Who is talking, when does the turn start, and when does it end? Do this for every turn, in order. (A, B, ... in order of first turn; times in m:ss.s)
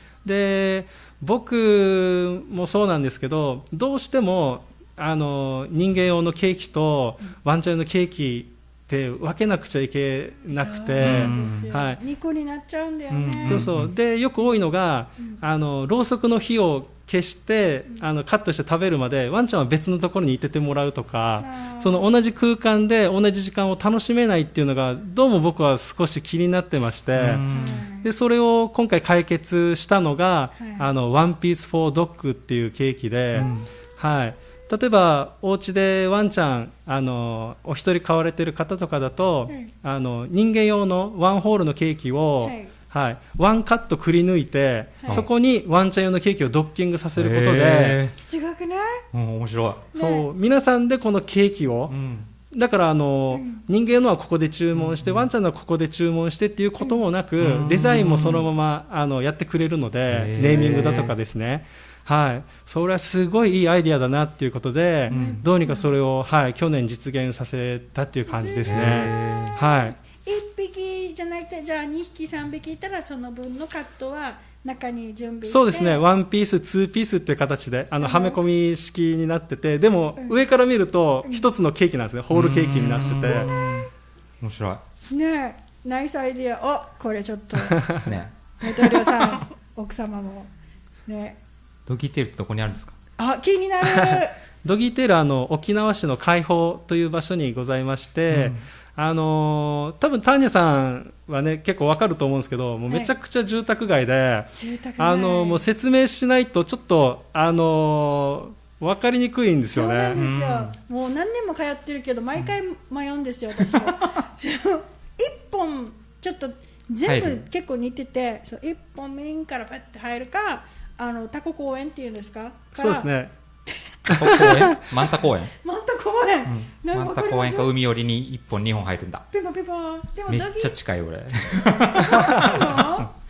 0:00.2-0:12.0 A
0:10.5-0:13.7 B
0:11.0-0:11.7 C
0:13.1-0:13.9 C
0:13.5-0:27.4 A
0:21.4-0:22.1 B
0:27.2-0:27.9 C
0:27.5-0:28.1 B
0:28.0-0:48.0 A
0:30.6-0:30.8 B
0:33.4-0:33.7 C
0:42.4-0:42.7 B
0:45.0-0:45.3 B
0:47.2-0:48.2 C
0:48.2-0:49.0 B
0:49.1-0:49.9 C
0:49.9-0:50.2 B
0:49.9-0:52.0 A
0:51.9-0:52.3 C
0:52.5-1:10.0 A
0:53.3-0:53.6 B
0:54.7-0:55.3 C
0:57.4-0:58.5 C
1:00.1-1:01.2 C
1:00.4-1:01.0 B
1:05.1-1:05.4 C
1:05.1-1:05.9 B
1:08.3-1:16.0 B
1:08.7-1:09.6 C
1:15.4-1:23.5 A
1:18.0-1:18.4 B
1:22.3-1:23.9 C
1:23.2-1:23.8 B
1:24.4-1:24.8 C
1:25.1-1:27.9 B
1:28.0-1:28.4 C
1:28.6-1:30.5 B
1:31.1-1:31.4 B
1:31.9-1:33.0 C
1:33.2-1:34.4 B
1:34.1-1:50.3 A
1:38.3-1:38.6 C
1:44.6-1:45.6 B
1:49.7-2:03.1 B
1:50.1-1:50.8 C
1:57.0-1:57.4 C
2:02.8-2:03.3 A
2:03.7-2:04.7 B
2:04.1-2:04.8 A
2:04.2-2:05.5 C
2:05.6-2:07.7 B
2:06.4-2:09.3 C
2:09.3-2:10.8 B
2:10.3-2:13.1 C
2:11.9-2:13.1 B